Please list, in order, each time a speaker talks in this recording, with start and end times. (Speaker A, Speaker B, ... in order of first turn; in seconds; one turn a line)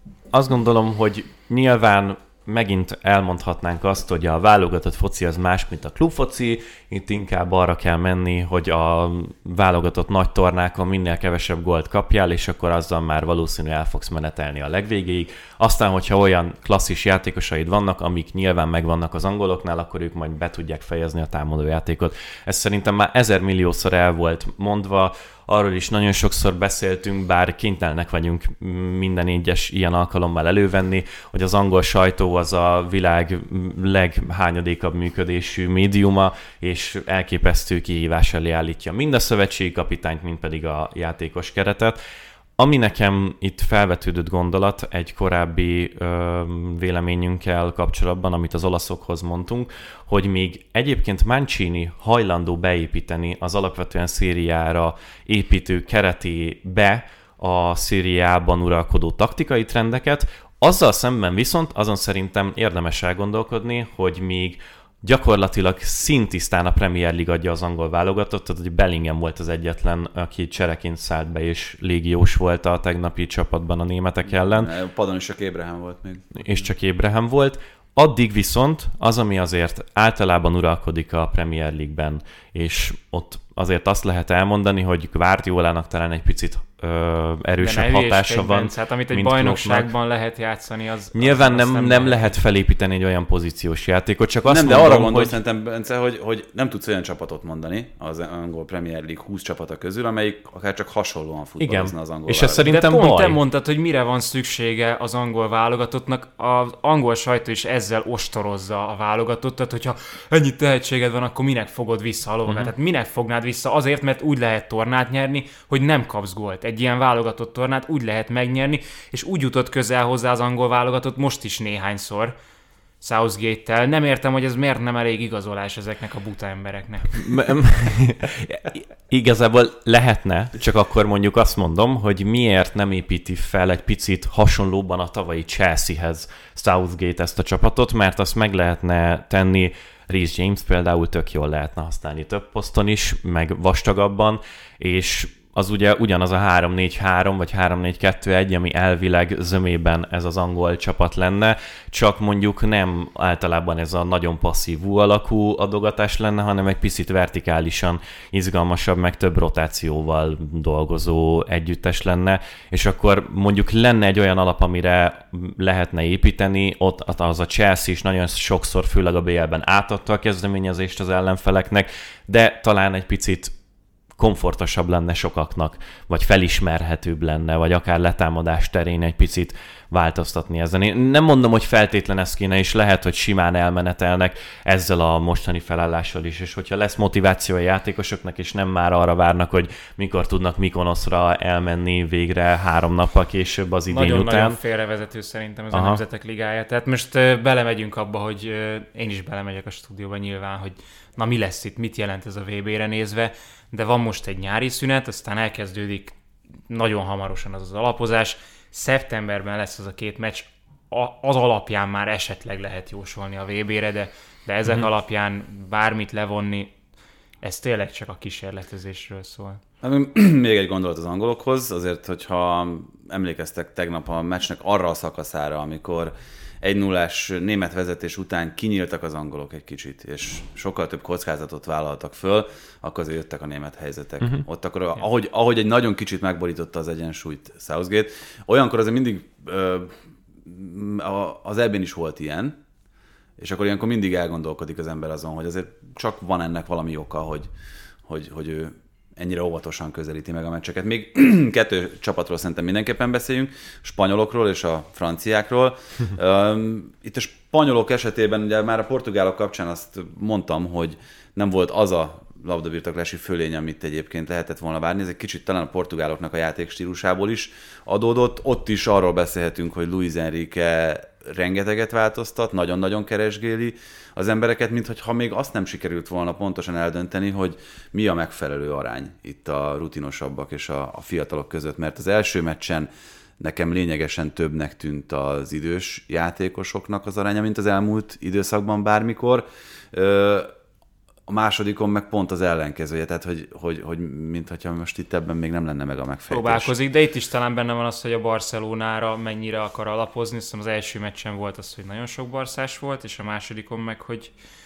Speaker A: 0.3-42.0
Speaker A: 42.6-74.7
Speaker B: 74.3-76.7
Speaker A: 76.3-89.9
Speaker C: 87.6-92.4
Speaker A: 91.2-95.4
Speaker B: 94.5-102.7
Speaker A: 101.6-103.4
Speaker C: 102.7-122.3
Speaker A: 112.5-112.7
Speaker C: 123.0-127.2
Speaker A: 127.1-173.5
Speaker A: 174.2-194.6
Speaker C: 193.9-206.2
Speaker A: 195.7-196.0
Speaker C: 206.7-216.7
Speaker C: 217.4-219.6
Speaker B: 219.8-239.9
Speaker B: 240.4-242.6
Speaker B: 243.4-247.5
Speaker B: 248.1-290.5
Speaker B: 291.3-296.8
Speaker C: 296.3-304.3